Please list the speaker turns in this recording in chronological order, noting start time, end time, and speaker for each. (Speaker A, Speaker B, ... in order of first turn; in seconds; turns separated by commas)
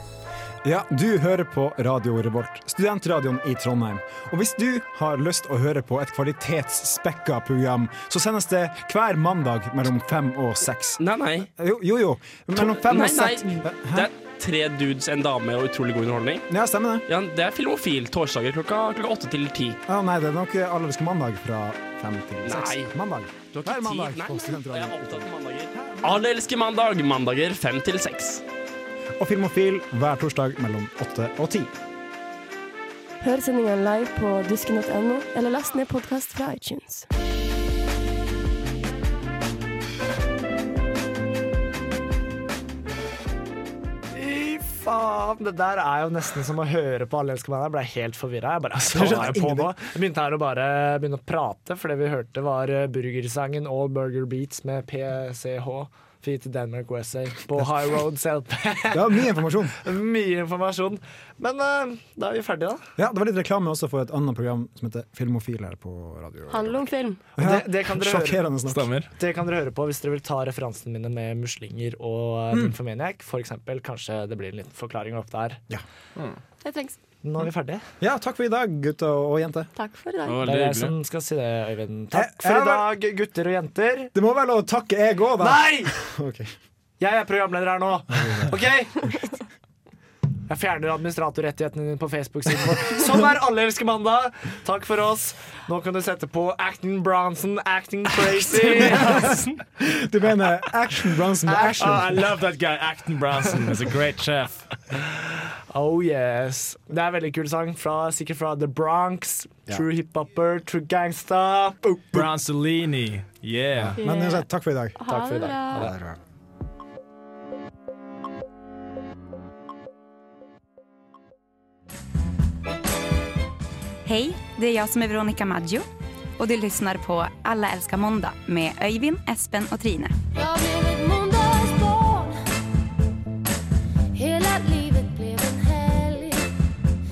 Speaker A: 0.6-14.1, Speaker B: 11.0-11.5, Speaker B: 12.5-16.4, Speaker A: 16.5-17.0, Speaker B: 17.1-19.8, Speaker A: 19.9-26.2, Speaker B: 22.4-22.9, Speaker B: 23.5-28.4, Speaker A: 29.2-31.7, Speaker C: 33.2-37.0, Speaker D: 44.1-62.9, Speaker A: 48.9-49.7, Speaker A: 58.9-59.8, Speaker A: 63.0-66.8, Speaker C: 66.5-67.2, Speaker A: 67.4-68.9, Speaker D: 67.4-68.4, Speaker E: 68.7-69.1, Speaker D: 69.1-75.6, Speaker C: 76.6-77.0, Speaker D: 77.2-77.8, Speaker A: 78.0-79.7, Speaker C: 79.8-80.4, Speaker E: 80.2-81.0, Speaker D: 80.4-84.1, Speaker A: 82.1-82.9, Speaker A: 84.1-86.5, Speaker D: 85.4-85.9, Speaker D: 87.0-89.1, Speaker A: 88.1-88.5, Speaker D: 90.5-99.3, Speaker A: 99.8-102.3, Speaker D: 101.5-102.0, Speaker E: 101.8-104.7, Speaker D: 105.2-112.2, Speaker E: 112.1-114.0, Speaker A: 113.8-115.0, Speaker C: 114.0-115.9, Speaker D: 115.0-116.0, Speaker A: 115.8-116.2, Speaker F: 124.0-125.8, Speaker F: 126.4-130.1, Speaker C: 130.4-132.4, Speaker C: 134.2-136.4